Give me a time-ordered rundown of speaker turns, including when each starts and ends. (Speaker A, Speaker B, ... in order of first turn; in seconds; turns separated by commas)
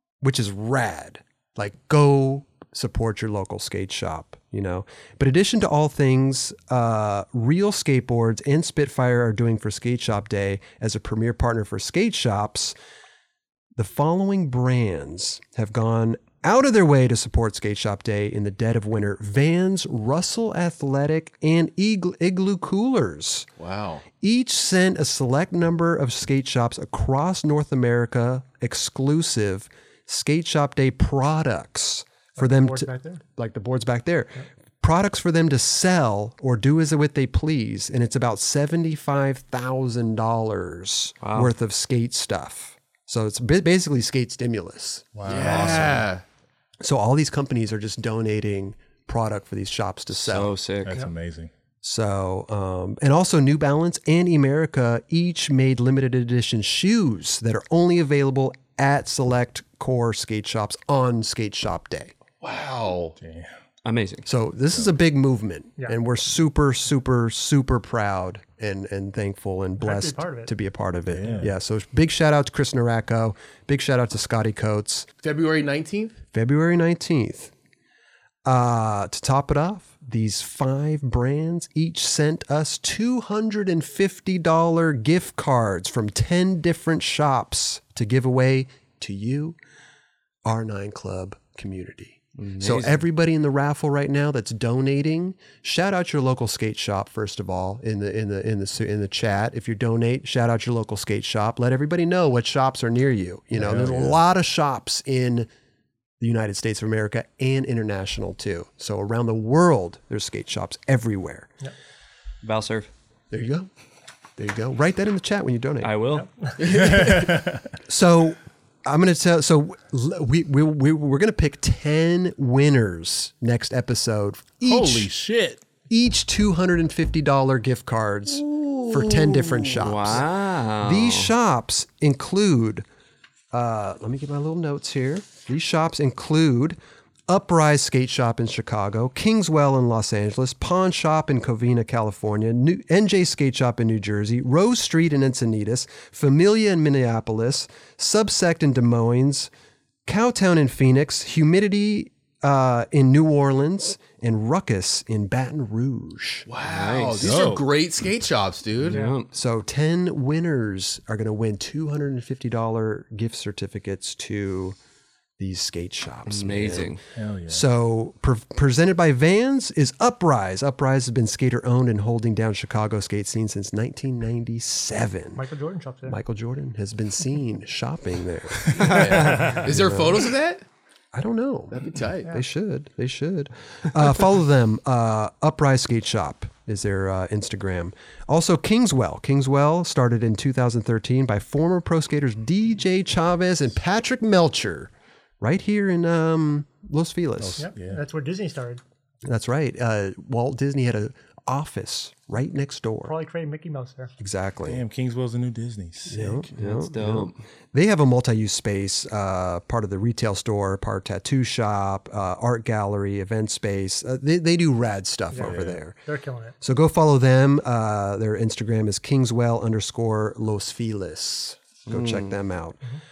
Speaker A: 0.2-12.8, Speaker A: 13.8-23.5, Speaker B: 23.6-24.1, Speaker A: 24.2-46.0, Speaker C: 32.4-33.2, Speaker D: 41.2-41.5, Speaker E: 45.2-46.0, Speaker B: 45.3-46.2, Speaker D: 45.4-45.9, Speaker A: 46.8-50.5, Speaker D: 50.2-51.0, Speaker E: 50.8-51.5, Speaker A: 51.8-62.1, Speaker B: 62.4-63.2, Speaker E: 63.2-63.5, Speaker D: 63.8-64.3, Speaker A: 64.3-75.1, Speaker C: 69.8-70.5, Speaker E: 71.1-71.5, Speaker B: 75.2-76.2, Speaker A: 76.3-77.5, Speaker A: 78.5-89.6, Speaker A: 90.5-105.5, Speaker D: 92.4-93.0, Speaker E: 103.8-104.0, Speaker A: 106.2-111.5, Speaker D: 112.4-112.9, Speaker A: 113.3-113.7, Speaker A: 114.4-115.9, Speaker D: 115.8-116.3, Speaker C: 116.1-116.5, Speaker B: 116.6-117.4, Speaker E: 116.8-117.6, Speaker A: 117.8-125.1, Speaker E: 124.7-125.6, Speaker A: 125.9-132.9, Speaker D: 128.3-131.3, Speaker A: 133.5-149.5, Speaker A: 150.1-156.5, Speaker B: 156.5-159.1, Speaker D: 156.6-157.4, Speaker E: 157.2-157.7, Speaker D: 158.9-159.3, Speaker A: 159.3-164.8, Speaker A: 165.4-167.0, Speaker D: 166.3-167.0, Speaker E: 167.2-167.6, Speaker A: 167.5-175.4, Speaker C: 175.3-176.2, Speaker A: 176.1-180.3, Speaker D: 178.7-179.5, Speaker B: 178.8-180.6, Speaker E: 179.2-179.7, Speaker A: 181.1-197.6, Speaker B: 181.7-182.3, Speaker E: 197.4-198.0, Speaker C: 197.6-198.8, Speaker A: 199.2-203.2, Speaker C: 203.1-204.1, Speaker A: 204.2-204.8, Speaker E: 204.7-206.4, Speaker A: 206.1-216.0, Speaker D: 206.6-207.4, Speaker C: 215.3-216.6, Speaker E: 215.4-215.8, Speaker A: 216.6-222.8, Speaker D: 221.9-222.3